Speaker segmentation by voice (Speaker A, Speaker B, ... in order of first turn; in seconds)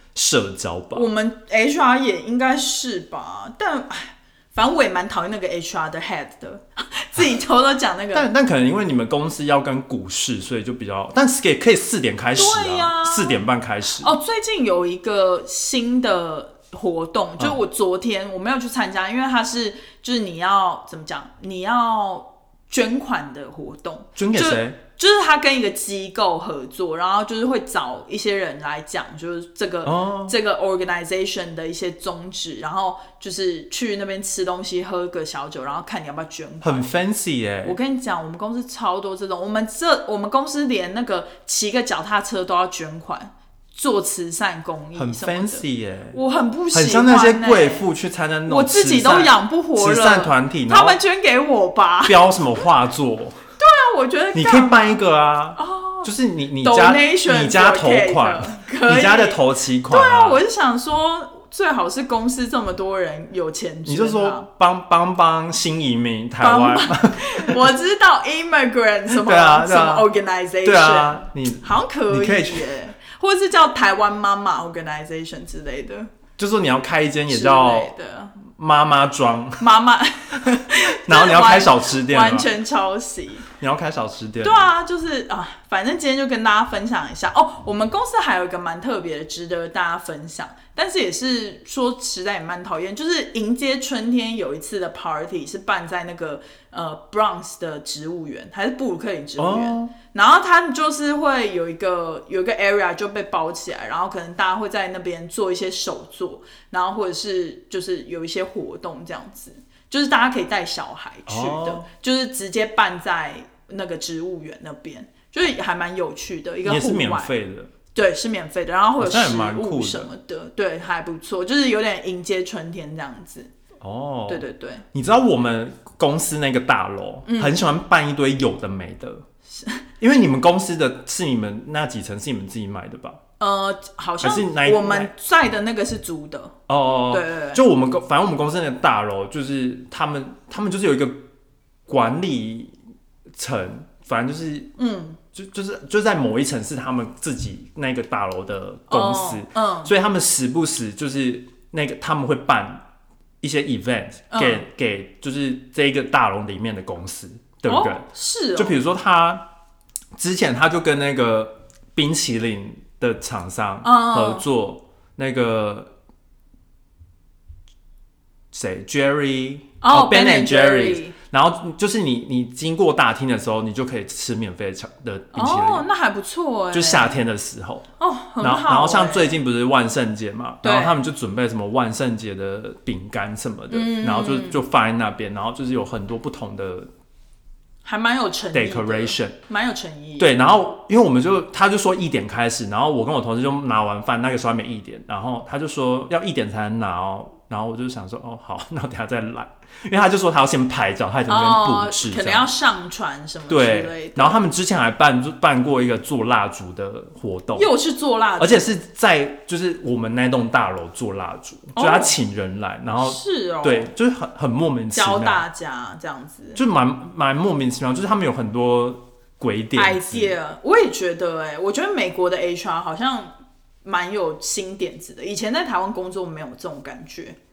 Speaker A: 0.1-1.1, 8.1-14.1, 24.2-24.8, 29.9-30.4, 36.6-37.8, 45.0-46.2, 46.7-51.0, 52.1-53.4, 54.4-60.4, 63.9-67.7, 69.1-70.1, 70.6-72.7, 76.4-77.9, 78.5-79.6, 80.7-82.5, 83.6-84.7, 99.4-99.9, 111.3-111.8, 116.6-117.7, 119.0-120.1, 123.8-129.2, 130.0-133.2, 134.2-135.1, 136.7-141.2, 141.9-142.7, 143.3-144.7, 145.3-152.8, 153.4-159.5, 160.2-165.9, 168.5-175.8, 176.7-177.9, 178.4-186.9, 188.5-189.4, 190.2-202.5, 203.5-207.7, 208.4-215.4, 216.6-220.3
Speaker B: 0.9-8.3, 12.3-13.4, 14.0-36.9, 37.6-47.9, 48.5-52.6, 53.6-55.0, 55.6-64.5, 66.4-76.1, 77.3-78.4, 79.6-83.5, 84.4-117.3, 117.9-123.5, 124.3-124.8, 127.3-127.6, 129.5-129.8, 133.4-136.6, 137.1-137.6, 144.8-145.2, 148.9-149.9, 154.3-154.7, 157.7-158.8, 163.8-164.4, 169.8-171.1, 175.3-177.2, 178.0-179.3, 180.6-180.9, 183.7-184.6, 187.8-190.4, 201.3-204.5, 207.5-208.7, 211.8-212.2, 213.0-213.9, 214.9-216.6, 219.8-227.4